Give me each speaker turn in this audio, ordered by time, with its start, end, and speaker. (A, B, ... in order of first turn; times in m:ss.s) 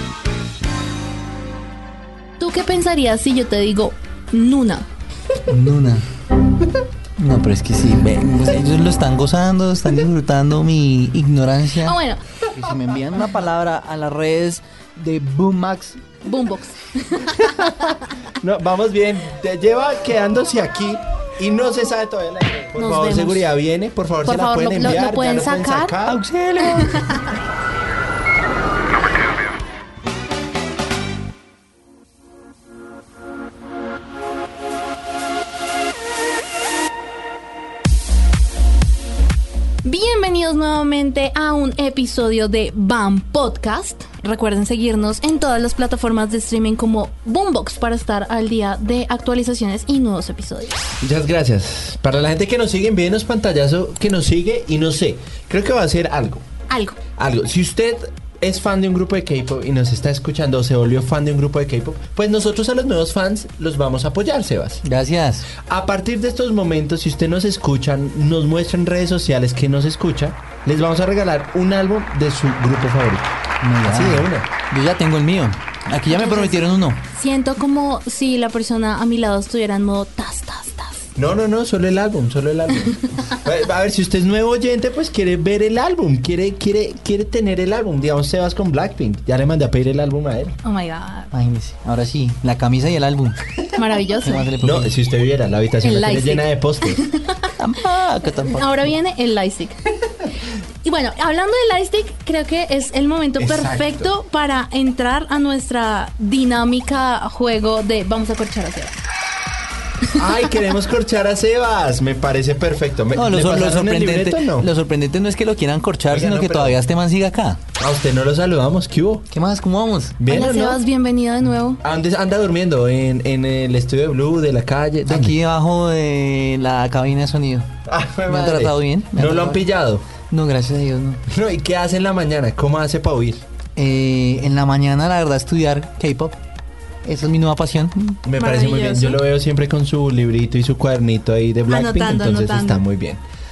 0:02.4-0:04.9 A
0:05.5-0:06.0 B
0:07.2-0:12.0 B
0:11.8-0:12.2 A
0:12.5-0:16.0 B
0:16.2-0:18.0 A
0:17.4-0:26.2 C
0:22.8-0:23.5 A
0:24.2-0:26.0 A
0:26.0-0:27.2 B
0:26.6-0:27.3 A
0:39.8-0:50.8 A
0:51.0-0:56.4 C
0:56.7-0:57.0 A
0:57.2-1:04.8 C
1:04.8-1:05.5 B
1:05.7-1:13.3 C
1:13.6-1:17.0 B
1:13.8-1:14.5 C
1:16.1-1:21.1 A
1:21.2-1:30.6 C
1:30.6-1:31.3 A
1:31.3-1:33.4 B
1:33.7-1:34.5 A
1:34.2-1:34.9 B
1:34.6-1:37.0 C
1:35.8-1:37.5 A
1:37.6-1:38.9 B
1:38.4-1:39.8 A
1:40.8-1:49.0 A
1:43.4-1:44.1 C
1:50.2-1:54.7 C
1:53.1-1:57.6 B
1:56.1-1:56.8 C
1:57.8-1:59.3 C
1:59.3-2:00.2 B
2:00.2-2:00.8 C
2:00.2-2:01.8 A
2:01.8-2:05.4 C
2:05.1-2:07.7 B
2:07.8-2:10.1 C
2:08.3-2:09.6 B
2:10.3-2:11.2 B
2:11.3-2:13.4 C
2:13.8-2:16.4 B
2:17.0-2:18.2 B
2:18.2-2:23.2 C
2:18.4-2:19.2 A
2:21.7-2:22.8 A